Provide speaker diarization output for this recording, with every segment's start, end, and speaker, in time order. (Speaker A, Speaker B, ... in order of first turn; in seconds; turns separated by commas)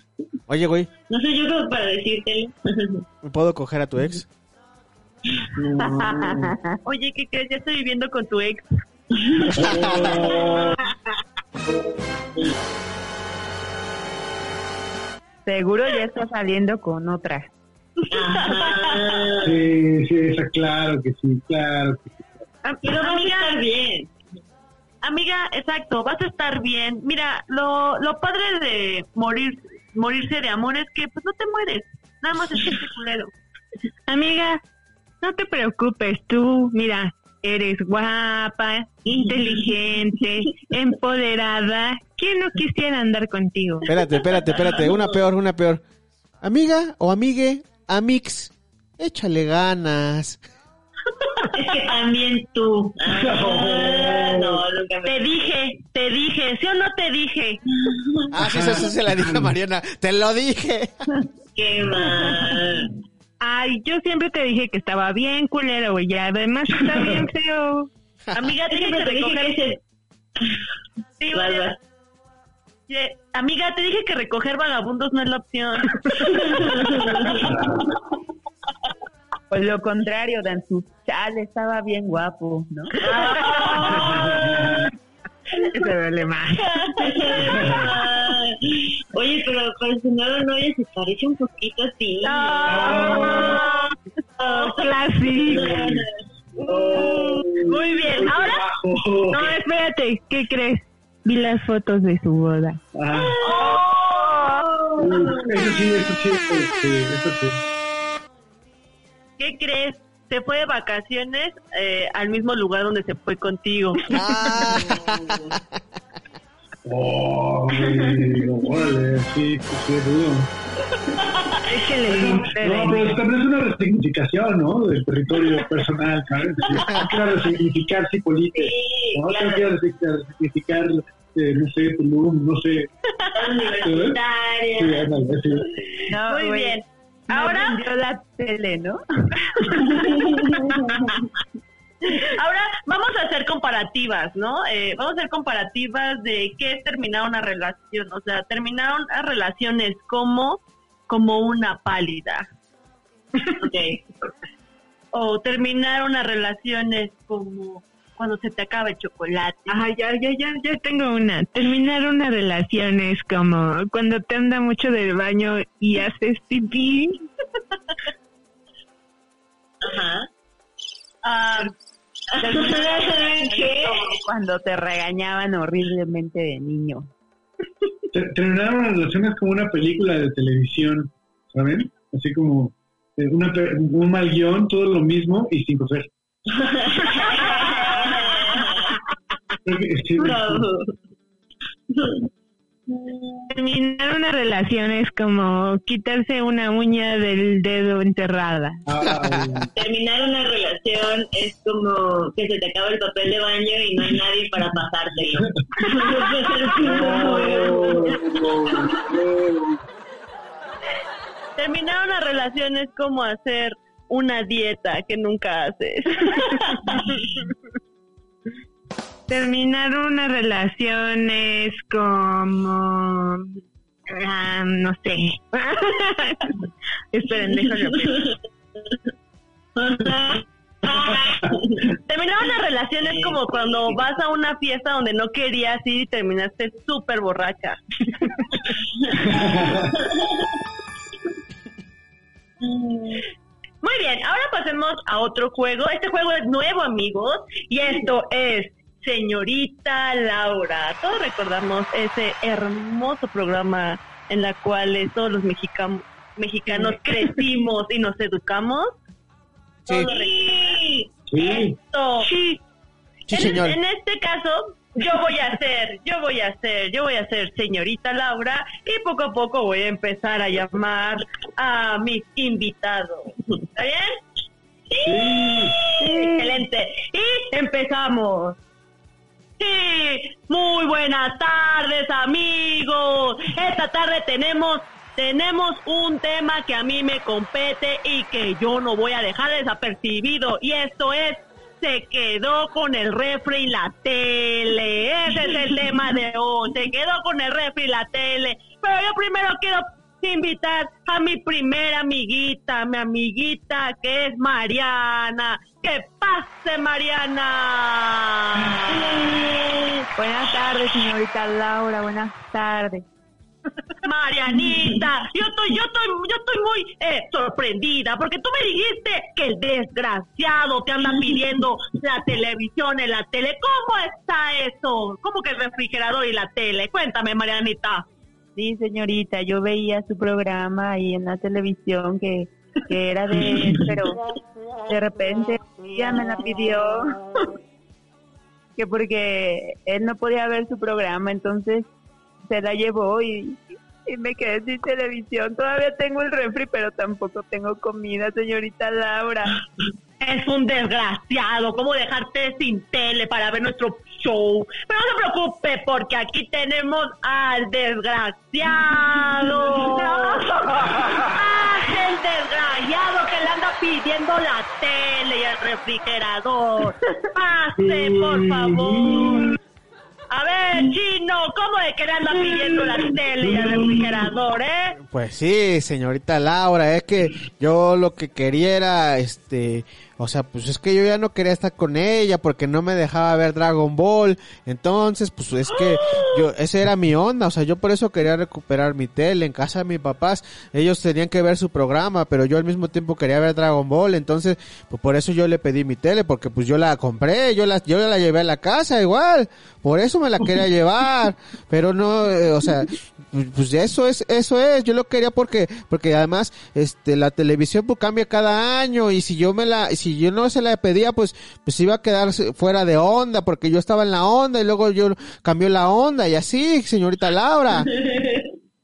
Speaker A: 0.5-0.9, Speaker B: 1.1-3.0, Speaker A: 3.2-4.3, Speaker C: 5.5-6.5, Speaker D: 5.8-6.8, Speaker E: 6.8-8.8, Speaker B: 9.2-10.5, Speaker C: 9.5-10.9, Speaker A: 9.6-10.3, Speaker D: 15.4-17.5, Speaker E: 18.0-19.2, Speaker B: 18.1-19.6, Speaker C: 19.4-22.4, Speaker E: 22.6-23.6, Speaker B: 22.8-24.1, Speaker E: 25.0-33.3, Speaker F: 34.1-34.6, Speaker F: 35.2-43.9, Speaker B: 39.0-40.3, Speaker B: 43.8-45.2, Speaker A: 43.9-45.8, Speaker A: 46.4-50.4, Speaker B: 51.5-55.4, Speaker C: 53.1-54.6, Speaker E: 55.0-57.6, Speaker B: 57.8-58.3, Speaker A: 58.3-61.1, Speaker C: 58.4-59.5, Speaker B: 61.5-62.9, Speaker F: 63.4-67.9, Speaker E: 68.3-69.6, Speaker B: 68.7-69.8, Speaker E: 71.2-71.7, Speaker B: 71.3-71.8, Speaker E: 72.9-76.3, Speaker B: 76.2-77.6, Speaker C: 77.5-77.8, Speaker D: 79.5-82.9, Speaker B: 83.0-84.9, Speaker F: 83.1-84.4, Speaker C: 83.9-84.9, Speaker F: 85.6-87.0, Speaker B: 87.0-93.8, Speaker C: 87.5-88.0, Speaker F: 92.2-93.9, Speaker E: 92.5-92.9, Speaker C: 92.7-93.6, Speaker B: 94.4-97.5, Speaker F: 94.6-95.7, Speaker C: 95.4-99.5, Speaker E: 96.9-98.6, Speaker F: 99.3-102.8, Speaker C: 102.9-103.5, Speaker B: 103.1-105.8, Speaker E: 103.4-104.5, Speaker F: 103.6-104.6, Speaker C: 105.0-107.6, Speaker E: 109.4-114.9, Speaker A: 114.1-115.6, Speaker C: 116.8-120.5, Speaker B: 117.7-118.3, Speaker F: 121.7-123.2, Speaker C: 122.0-132.9, Speaker B: 128.5-129.7, Speaker B: 133.3-135.1, Speaker C: 133.8-134.2, Speaker C: 134.7-135.8, Speaker D: 136.1-136.8, Speaker E: 136.3-137.8, Speaker D: 137.3-139.0, Speaker B: 139.7-141.3, Speaker E: 142.2-152.5, Speaker B: 153.6-154.0, Speaker E: 155.1-159.8, Speaker F: 159.7-167.2, Speaker B: 169.8-170.3, Speaker E: 171.2-171.7, Speaker B: 172.4-173.8, Speaker E: 172.4-173.5, Speaker D: 172.4-177.1, Speaker C: 178.1-186.1, Speaker B: 186.5-189.0, Speaker E: 187.1-188.5, Speaker C: 189.6-190.7, Speaker B: 190.2-190.9, Speaker B: 191.9-192.3, Speaker B: 192.9-193.5, Speaker F: 193.5-198.8, Speaker C: 198.8-199.7, Speaker A: 199.0-199.6, Speaker B: 199.7-209.0, Speaker C: 206.8-209.8, Speaker E: 211.6-216.9, Speaker F: 219.3-223.6, Speaker F: 224.1-226.6, Speaker F: 227.1-228.3, Speaker B: 227.8-228.3, Speaker B: 229.8-231.9, Speaker E: 232.0-238.3, Speaker B: 233.0-234.0, Speaker B: 238.9-240.6, Speaker C: 239.3-239.9, Speaker B: 242.6-243.2, Speaker E: 243.8-259.0, Speaker E: 259.9-260.8, Speaker B: 259.9-261.1, Speaker C: 261.3-261.8, Speaker E: 261.4-262.6, Speaker F: 262.2-262.5, Speaker A: 263.3-263.8, Speaker E: 263.3-274.2, Speaker E: 274.9-278.6, Speaker C: 275.0-275.8, Speaker D: 276.0-276.5, Speaker E: 279.6-309.4, Speaker B: 295.3-295.8, Speaker B: 308.8-310.1, Speaker D: 310.2-313.1, Speaker E: 314.0-328.1, Speaker B: 314.5-315.0, Speaker D: 328.6-334.2, Speaker D: 334.9-337.1, Speaker E: 335.9-336.4, Speaker D: 338.8-341.9, Speaker D: 342.4-349.6, Speaker E: 350.2-369.5, Speaker F: 360.3-361.2, Speaker C: 367.7-369.6, Speaker E: 370.3-374.9, Speaker B: 372.3-372.9, Speaker C: 373.4-374.3, Speaker A: 375.0-417.9, Speaker E: 385.7-386.4, Speaker B: 417.9-418.5